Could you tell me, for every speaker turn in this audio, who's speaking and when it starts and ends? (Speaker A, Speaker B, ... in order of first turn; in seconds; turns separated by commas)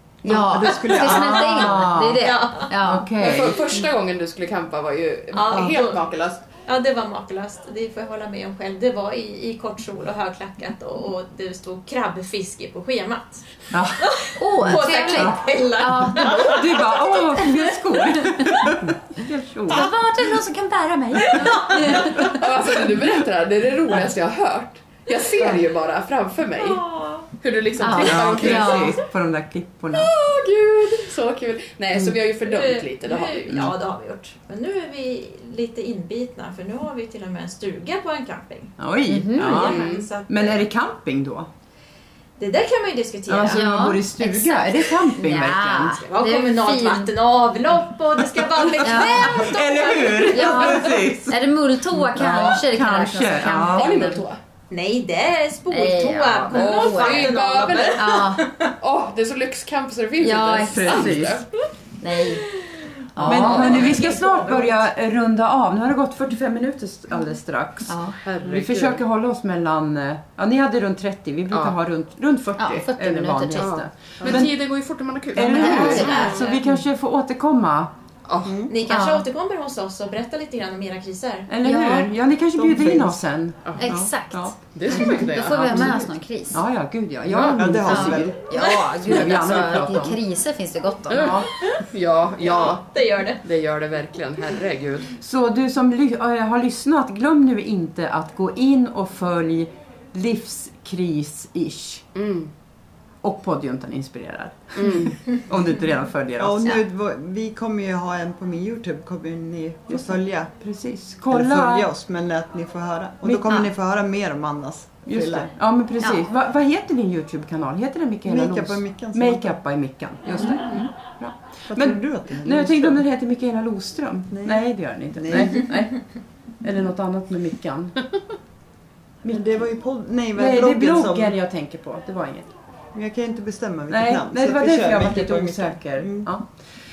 Speaker A: 0.2-3.1, Speaker B: 0.3-1.8, Speaker C: 0.6-2.7, Speaker D: 1.0-2.2, Speaker D: 2.8-3.6, Speaker E: 3.2-6.4, Speaker C: 5.3-6.0, Speaker C: 6.7-18.8, Speaker D: 13.7-15.4, Speaker A: 14.4-16.8, Speaker D: 16.1-19.9, Speaker A: 19.7-22.4, Speaker C: 21.2-22.3, Speaker E: 21.9-26.8, Speaker C: 26.6-27.3, Speaker E: 27.4-29.0, Speaker A: 27.8-29.0, Speaker B: 28.1-28.5, Speaker D: 28.1-30.1, Speaker E: 29.9-33.6, Speaker C: 32.4-38.8, Speaker D: 38.8-41.5, Speaker A: 39.1-39.8, Speaker C: 39.4-40.6, Speaker E: 39.5-40.1, Speaker C: 42.4-43.6, Speaker D: 43.3-46.0, Speaker A: 43.5-47.1, Speaker C: 46.0-50.9, Speaker D: 48.8-51.4, Speaker A: 48.8-49.6, Speaker A: 50.2-54.2, Speaker D: 51.9-54.0, Speaker E: 53.6-54.4, Speaker C: 54.7-58.7, Speaker A: 55.7-57.3, Speaker E: 56.5-58.2, Speaker A: 57.9-58.5, Speaker E: 58.8-61.5, Speaker A: 60.2-61.1, Speaker D: 60.6-61.4, Speaker A: 62.0-62.5, Speaker C: 62.4-64.8, Speaker A: 63.1-63.9, Speaker D: 63.2-74.5, Speaker E: 63.2-63.7, Speaker A: 67.9-68.2, Speaker E: 68.2-69.0, Speaker E: 71.5-71.8, Speaker A: 72.6-73.7, Speaker E: 73.5-76.4, Speaker D: 75.3-77.9, Speaker A: 75.4-76.6, Speaker C: 75.9-76.5, Speaker E: 78.3-78.6, Speaker B: 78.4-78.7, Speaker C: 78.7-81.8, Speaker D: 78.9-79.2, Speaker D: 81.5-85.0, Speaker A: 81.6-82.0, Speaker B: 82.5-83.2, Speaker A: 83.8-86.6, Speaker E: 84.7-86.0, Speaker D: 85.7-86.0, Speaker D: 86.5-90.2, Speaker E: 87.3-87.6, Speaker B: 87.5-88.4, Speaker A: 87.8-91.4, Speaker C: 88.5-89.5, Speaker D: 91.1-91.5, Speaker E: 91.1-95.1, Speaker C: 91.5-91.8, Speaker C: 92.4-93.4, Speaker D: 95.2-102.0, Speaker E: 102.1-102.5, Speaker D: 103.2-106.7, Speaker E: 104.7-105.2, Speaker B: 106.4-110.5, Speaker D: 109.9-111.9, Speaker B: 111.3-115.5, Speaker A: 113.4-113.7, Speaker D: 115.1-126.0, Speaker A: 116.0-116.3, Speaker B: 118.2-119.5, Speaker E: 120.4-120.8, Speaker B: 121.7-123.0, Speaker B: 124.3-125.9, Speaker D: 126.6-128.0, Speaker B: 129.3-131.3, Speaker D: 130.3-132.5, Speaker B: 132.9-136.3, Speaker D: 133.9-136.5